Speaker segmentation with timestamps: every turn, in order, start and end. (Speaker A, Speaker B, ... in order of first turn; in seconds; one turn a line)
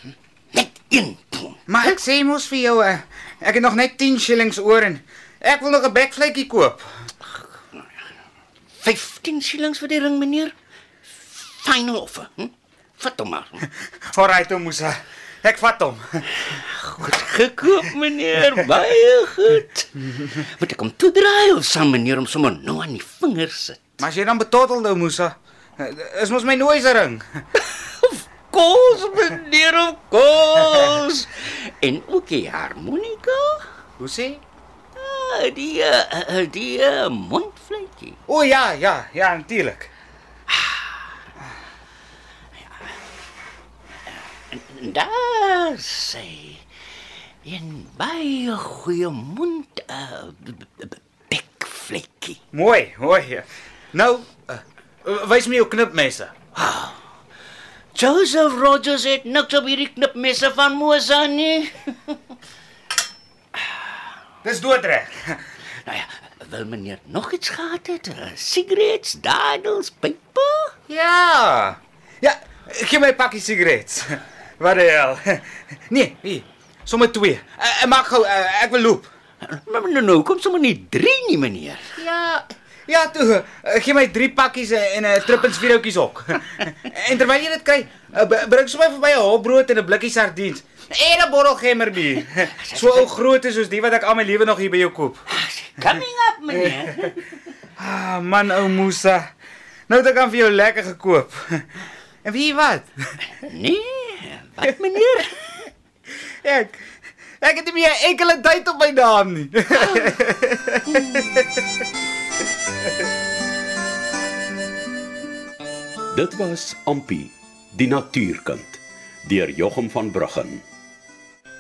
Speaker A: 0.5-2.0
Speaker B: 1.7-6.9
Speaker A: 8.8-10.5
Speaker A: 11.3-13.7
Speaker B: 14.1-16.2
Speaker A: 16.5-23.8
Speaker B: 24.0-27.2
Speaker A: 27.6-33.6
Speaker B: 34.0-34.4
Speaker A: 35.0-38.2
Speaker B: 38.3-39.9
Speaker A: 44.1-46.6
Speaker A: 47.5-52.4
Speaker B: 52.5-56.3
Speaker A: 56.5-57.0
Speaker A: 58.0-62.2
Speaker B: 64.4-65.4
Speaker A: 65.8-70.7
Speaker B: 70.9-79.1
Speaker A: 79.4-82.0
Speaker B: 82.0-95.2
Speaker A: 92.4-93.2
Speaker A: 95.3-97.4
Speaker B: 97.8-99.3
Speaker B: 99.9-101.6
Speaker B: 102.2-103.1
Speaker A: 103.4-105.5
Speaker B: 106.4-106.8
Speaker B: 107.4-110.8
Speaker A: 109.7-110.2
Speaker A: 110.9-111.4
Speaker C: 116.1-120.6